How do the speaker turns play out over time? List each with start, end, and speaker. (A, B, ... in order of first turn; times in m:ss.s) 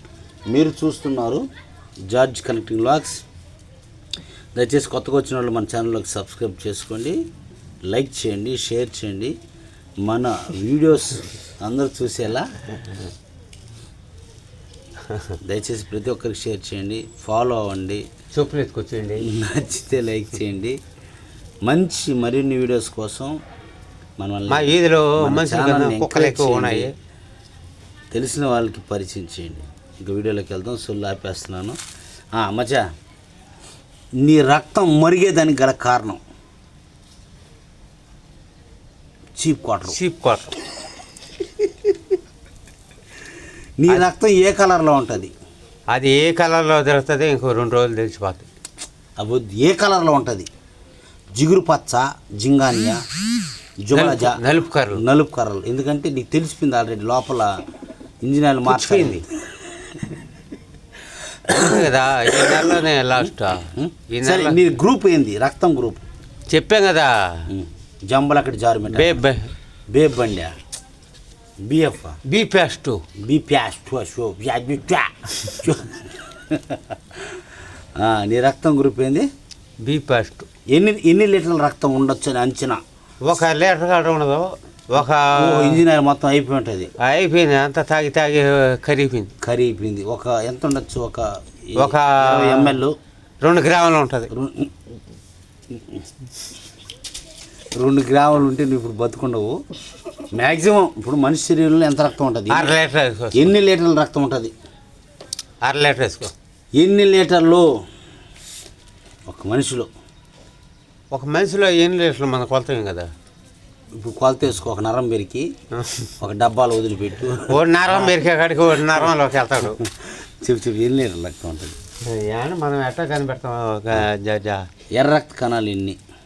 0:00.5-0:01.4 A
0:02.1-0:03.2 A
0:04.6-0:07.2 A
0:07.9-0:09.4 A
0:10.0-0:12.5 A
0:15.1-0:15.4 B
0:15.4-0:18.0 A
0:18.3-0:19.3 B
0:19.2-0:20.8 A
0:21.6-0:23.4 A
0:24.2-0:26.9 A
0:24.5-0:26.9 B
0:28.1-0:31.8 A
0:32.4-0:32.9 A
0:34.2-0:36.2 A
0:39.4-0:40.0 A
0:39.9-0:40.6 B
0:43.8-0:45.3 A
0:45.9-0:48.5 B
0:49.2-0:50.5 A
0:51.3-0:53.0 A
0:53.8-0:54.4 A
0:53.9-0:55.0 B
0:54.9-0:57.6 A
0:58.2-0:59.2 A
0:58.7-0:59.2 B
1:01.5-1:04.7 B
1:03.7-1:06.0 A
1:06.5-1:07.5 B
1:07.5-1:09.2 A
1:08.9-1:09.5 B
1:09.9-1:10.6 A
1:11.6-1:12.2 A
1:12.2-1:13.0 B
1:13.2-1:17.4 A
1:18.0-1:19.3 A
1:19.8-1:20.5 B
1:20.7-1:22.8 A
1:23.2-1:25.8 B
1:25.3-1:26.9 A
1:27.0-1:29.3 B
1:29.4-1:33.0 A
1:31.8-1:32.8 B
1:33.4-1:34.3 B
1:34.3-1:34.7 A
1:35.7-1:36.0 A
1:37.8-1:39.6 A
1:40.3-1:42.8 A
1:42.5-1:43.5 B
1:43.3-1:44.5 A
1:45.6-1:46.3 B
1:46.8-1:47.7 A
1:49.3-1:49.9 A
1:51.1-1:53.1 B
1:54.0-1:55.5 A
1:55.7-1:56.1 B
1:56.2-1:58.2 A
1:57.5-1:59.8 B
1:59.8-2:01.8 A
2:02.0-2:04.7 B
2:04.9-2:06.0 A